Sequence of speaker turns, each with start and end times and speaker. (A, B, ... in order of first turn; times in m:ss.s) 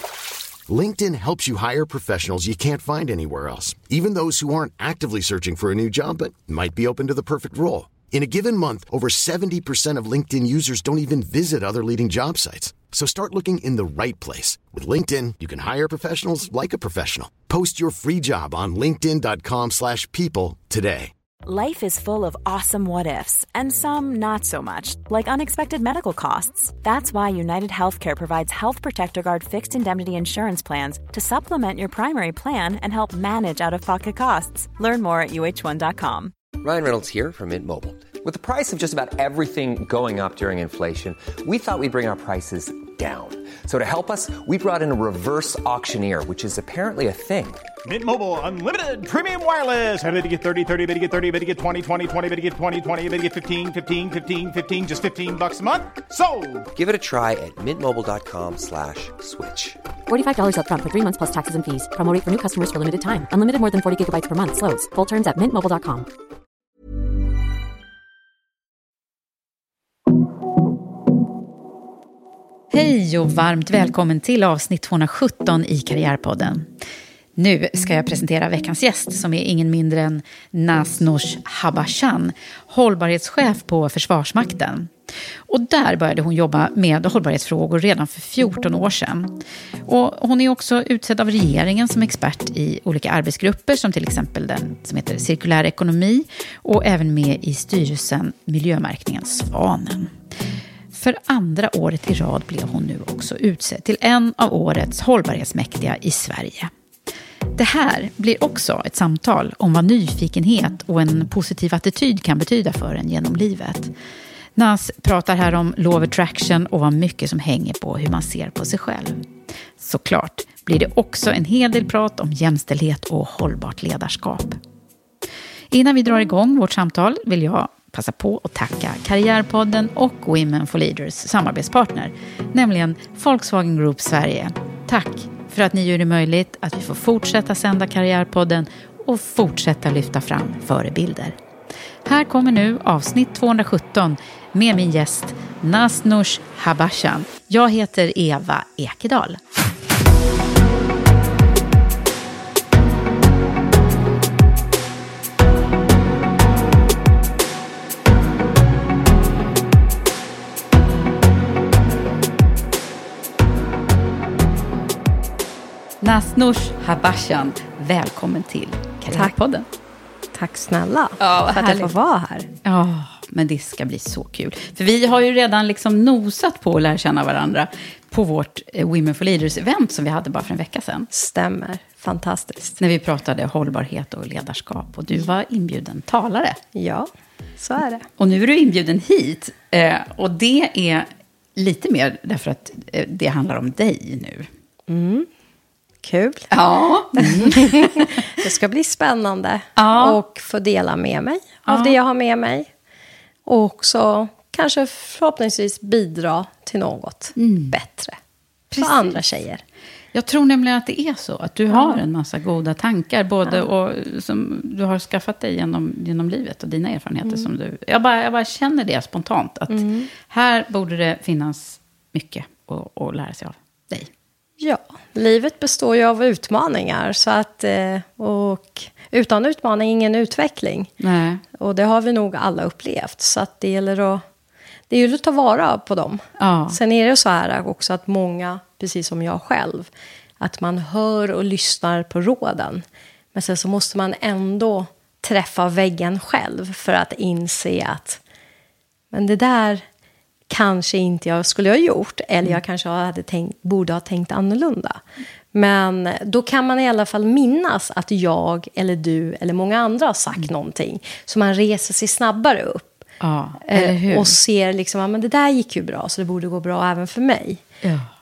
0:00.7-0:21.1 A
0:21.4-0:36.3 B
0:36.6-0:47.6 C
0:47.8-0:56.7 D
0:56.7-0:59.8 C
1:00.1-1:06.1 E
1:12.7-1:16.7 F
1:17.4-1:24.9 F
1:25.5-1:29.3 F
1:29.9-1:40.1 F
1:40.9-1:46.7 F
1:47.5-1:53.9 F
1:54.6-1:59.2 F
1:59.8-2:04.6 F
2:05.7-2:21.3 F
2:22.0-2:29.4 F
2:46.0-2:49.6 F
2:49.1-2:49.3 G
2:50.3-2:52.5 G
2:51.2-2:51.9 F
2:52.6-3:01.1 F
3:01.1-3:02.8 G
3:02.8-3:06.6 F
3:06.7-3:08.0 G
3:08.2-3:14.5 F
3:14.9-3:15.3 G
3:16.0-3:16.5 G
3:16.5-3:18.3 F
3:17.1-3:22.7 G
3:19.8-3:20.2 F
3:21.7-3:22.0 F
3:23.4-3:28.2 G
3:27.4-3:27.7 F
3:28.7-3:29.2 F
3:28.8-3:29.6 G
3:30.1-3:44.1 F
3:31.7-3:32.0 G
3:39.7-3:40.1 G
3:44.6-3:50.9 G
3:51.0-3:51.4 F
3:51.5-3:54.2 G
3:54.9-4:08.2 G
3:56.4-3:56.8 F
4:09.1-4:09.8 G
4:10.5-4:15.0 G
4:15.5-4:22.9 G
4:23.2-4:24.4 F
4:23.7-4:27.6 G
4:27.8-4:28.1 F